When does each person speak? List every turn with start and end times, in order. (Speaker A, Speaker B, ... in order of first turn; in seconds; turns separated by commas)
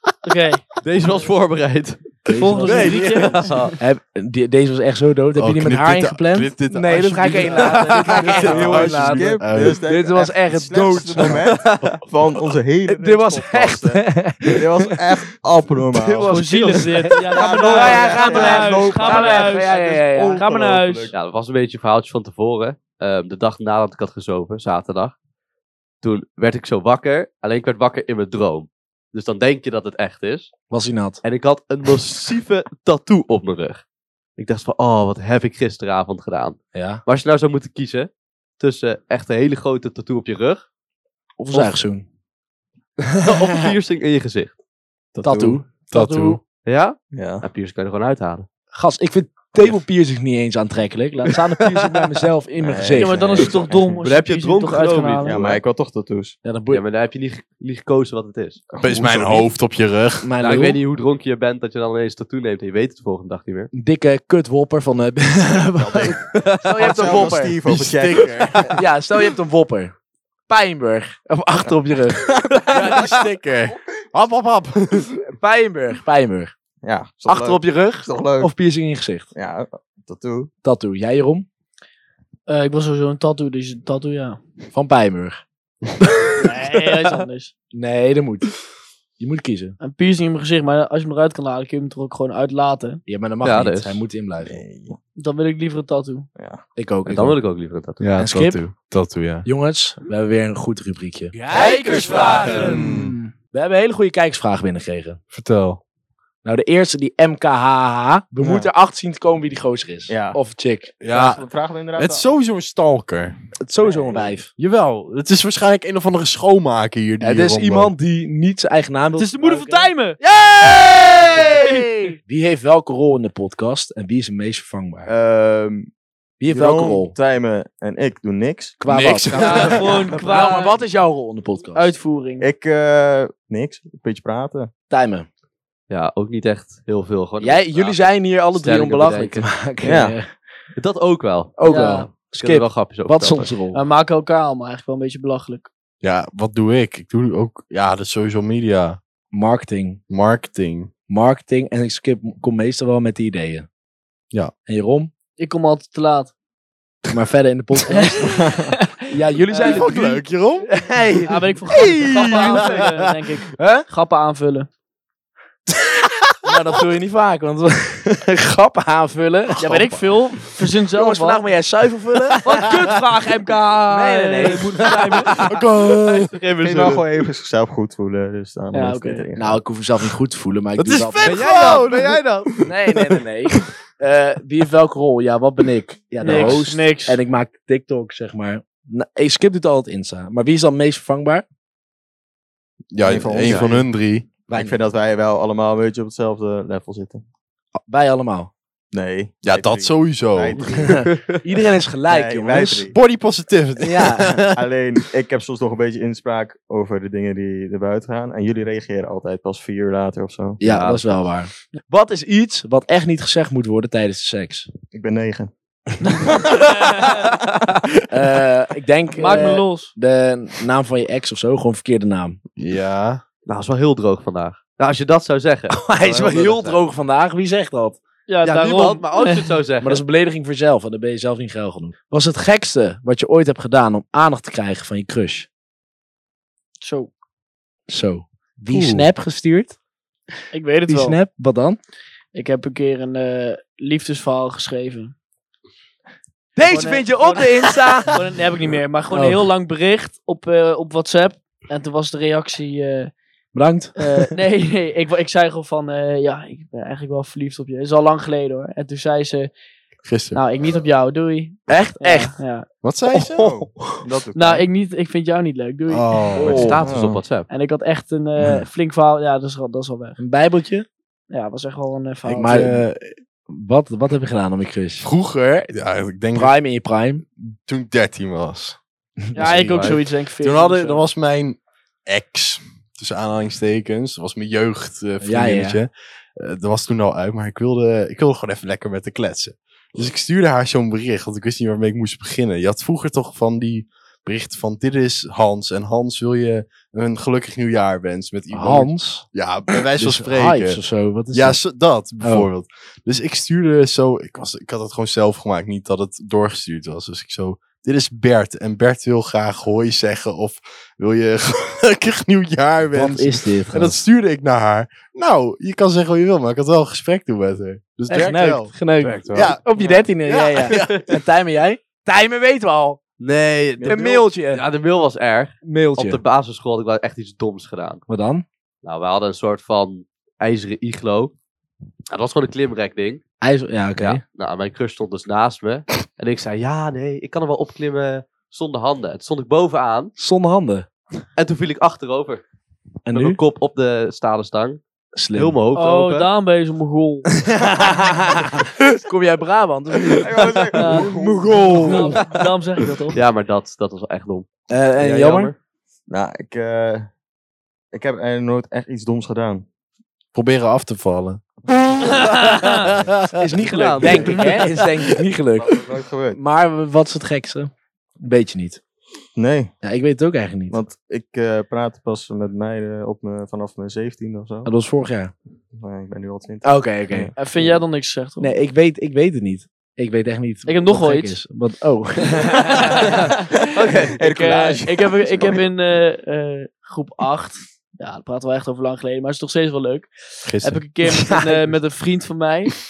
Speaker A: 0.2-0.6, Speaker B: 0.8-3.8, Speaker C: 2.3-3.2, Speaker A: 2.4-3.8, Speaker D: 2.6-3.4, Speaker C: 3.8-11.5, Speaker D: 5.4-9.8, Speaker A: 7.4-8.1, Speaker B: 7.8-8.9, Speaker E: 8.4-16.5, Speaker B: 11.5-12.0, Speaker C: 12.9-15.0, Speaker C: 15.9-20.5, Speaker A: 16.3-21.1, Speaker E: 17.3-21.1, Speaker B: 21.1-25.1, Speaker B: 26.0-30.6, Speaker C: 30.7-31.2, Speaker B: 31.2-33.8, Speaker B: 34.4-40.6, Speaker C: 36.7-37.0, Speaker C: 41.4-42.1, Speaker C: 43.1-43.7, Speaker B: 43.2-44.6, Speaker E: 45.1-45.6, Speaker C: 45.2-46.4, Speaker D: 45.9-46.4, Speaker B: 46.7-48.5, Speaker E: 47.1-47.4, Speaker C: 48.7-53.6, Speaker B: 51.6-52.1, Speaker E: 52.6-54.0, Speaker A: 53.0-55.4, Speaker B: 54.0-55.6, Speaker E: 55.2-56.4, Speaker C: 56.4-56.8, Speaker B: 56.7-58.6, Speaker E: 58.7-59.5, Speaker D: 58.8-60.3, Speaker C: 60.2-60.8, Speaker B: 60.4-63.7, Speaker C: 63.7-67.6, Speaker E: 65.8-68.7, Speaker D: 67.7-68.8, Speaker C: 68.7-69.9, Speaker C: 70.5-72.4, Speaker E: 72.5-73.1, Speaker D: 72.7-75.2, Speaker C: 75.3-76.5, Speaker E: 76.8-78.5, Speaker C: 77.3-79.3, Speaker E: 79.3-80.5, Speaker C: 80.6-81.5, Speaker A: 82.5-84.4, Speaker C: 84.7-85.4, Speaker A: 86.4-87.5, Speaker C: 87.7-88.5, Speaker C: 89.2-89.8, Speaker A: 89.8-93.0, Speaker C: 93.1-94.6, Speaker B: 93.4-94.0, Speaker E: 94.5-95.0, Speaker A: 95.2-96.3, Speaker E: 96.4-96.6, Speaker C: 96.8-97.4, Speaker B: 97.1-98.0, Speaker D: 98.0-99.5, Speaker C: 98.2-98.6, Speaker C: 99.5-105.2, Speaker D: 101.5-103.2, Speaker D: 105.3-105.8, Speaker C: 106.4-110.9, Speaker E: 108.4-108.7, Speaker E: 110.1-110.4, Speaker D: 111.0-111.4, Speaker E: 111.1-112.3, Speaker D: 112.0-113.4, Speaker C: 113.6-114.5, Speaker D: 114.6-117.9, Speaker C: 117.2-125.1, Speaker A: 119.2-120.2, Speaker A: 121.3-122.1, Speaker E: 125.1-125.9, Speaker C: 126.4-127.1, Speaker E: 126.5-128.8, Speaker C: 128.8-131.9, Speaker D: 128.9-130.2, Speaker A: 129.3-130.8, Speaker A: 131.7-132.5, Speaker E: 132.4-134.7, Speaker C: 134.9-135.3, Speaker B: 135.9-139.5, Speaker C: 137.4-140.3, Speaker E: 139.8-140.2, Speaker B: 140.8-141.6, Speaker C: 141.6-143.8, Speaker A: 141.6-142.1, Speaker B: 142.1-143.5, Speaker A: 143.7-145.7, Speaker D: 146.0-149.0, Speaker C: 149.3-150.0, Speaker D: 150.1-150.9, Speaker C: 151.1-153.7, Speaker C: 154.7-155.1, Speaker A: 155.4-156.3, Speaker C: 157.1-158.4, Speaker A: 157.9-160.0, Speaker E: 158.4-158.7, Speaker C: 159.1-162.9, Speaker D: 159.6-160.7, Speaker A: 161.2-164.7, Speaker D: 161.7-163.1, Speaker C: 163.6-163.8, Speaker C: 166.4-170.0, Speaker A: 169.6-171.5, Speaker C: 170.9-172.9, Speaker A: 172.4-175.4, Speaker C: 173.9-175.4, Speaker B: 175.2-177.0, Speaker D: 175.4-176.3, Speaker E: 176.6-179.6, Speaker A: 178.7-179.2, Speaker C: 179.4-181.4, Speaker D: 180.8-183.2, Speaker B: 181.2-182.0, Speaker C: 182.6-191.4, Speaker A: 186.2-187.2, Speaker D: 186.2-186.6, Speaker D: 192.9-194.3, Speaker E: 193.0-193.9, Speaker C: 193.5-193.9, Speaker C: 194.5-194.8, Speaker E: 194.5-197.2, Speaker C: 197.9-198.5, Speaker E: 198.9-201.0, Speaker D: 199.4-200.7, Speaker C: 200.8-202.9, Speaker B: 200.8-201.4, Speaker E: 202.1-203.0, Speaker D: 202.8-204.6, Speaker C: 203.8-204.5, Speaker E: 204.5-210.6, Speaker C: 210.6-214.7, Speaker B: 210.6-211.3, Speaker E: 214.9-215.5, Speaker A: 216.1-217.3, Speaker C: 218.1-222.4, Speaker A: 219.2-219.9, Speaker D: 222.6-223.2, Speaker B: 223.5-226.8, Speaker C: 225.7-228.0, Speaker A: 228.3-229.6, Speaker B: 228.4-230.0, Speaker C: 229.8-235.5, Speaker A: 236.8-237.1, Speaker C: 237.9-239.8, Speaker D: 238.7-239.1, Speaker A: 240.5-241.2, Speaker C: 240.9-241.8, Speaker A: 242.3-245.1, Speaker C: 246.6-248.2, Speaker A: 246.7-253.1, Speaker C: 249.1-249.5, Speaker C: 253.5-254.3, Speaker A: 254.0-259.5, Speaker D: 260.1-260.4, Speaker A: 260.3-262.7, Speaker C: 261.7-262.3, Speaker D: 262.8-263.7, Speaker E: 263.1-264.7, Speaker A: 264.3-266.3, Speaker D: 265.9-266.8, Speaker C: 266.4-266.8, Speaker B: 266.4-267.5, Speaker E: 266.8-267.2, Speaker A: 267.5-270.2, Speaker C: 270.2-270.9, Speaker A: 271.3-272.7, Speaker D: 272.3-273.1, Speaker C: 272.3-272.9, Speaker C: 273.5-275.1, Speaker D: 275.0-276.6, Speaker C: 276.3-277.2, Speaker D: 277.4-278.8, Speaker C: 279.2-280.0, Speaker A: 279.3-281.1, Speaker B: 279.4-280.0, Speaker D: 280.4-318.7, Speaker C: 285.2-285.8, Speaker C: 298.5-301.6, Speaker C: 302.2-302.5, Speaker C: 312.9-314.0, Speaker C: 318.1-323.0, Speaker B: 319.0-320.0, Speaker D: 319.3-319.6, Speaker D: 320.3-321.2, Speaker B: 323.2-328.0, Speaker E: 323.8-324.2, Speaker C: 323.8-324.6, Speaker C: 325.6-326.2, Speaker C: 328.1-328.4, Speaker B: 328.8-331.3, Speaker B: 332.1-333.2, Speaker C: 333.4-334.2, Speaker B: 334.0-340.1, Speaker C: 340.2-340.9, Speaker B: 341.4-342.4, Speaker C: 343.1-343.4, Speaker B: 343.1-344.8, Speaker C: 345.2-345.6, Speaker B: 345.4-346.3, Speaker A: 345.8-347.6, Speaker C: 347.5-352.3, Speaker E: 350.2-352.2, Speaker A: 350.7-351.2, Speaker A: 351.7-353.2, Speaker B: 353.1-355.6, Speaker C: 354.7-355.5, Speaker E: 356.1-357.1, Speaker E: 357.9-359.7, Speaker D: 360.3-361.4, Speaker A: 362.0-362.9, Speaker D: 362.8-363.1, Speaker C: 363.3-365.8, Speaker B: 363.7-364.6, Speaker E: 364.0-364.3, Speaker A: 364.3-364.8, Speaker E: 365.6-366.4, Speaker C: 366.3-368.8, Speaker E: 369.4-369.7, Speaker C: 369.8-370.8, Speaker E: 370.7-374.7, Speaker C: 374.6-375.3, Speaker E: 375.7-377.3, Speaker C: 376.6-377.3, Speaker A: 377.4-378.6, Speaker C: 378.4-383.2, Speaker A: 380.6-381.4, Speaker A: 382.5-392.8, Speaker B: 383.8-384.2, Speaker E: 384.2-385.6, Speaker D: 390.5-390.8, Speaker C: 391.1-391.5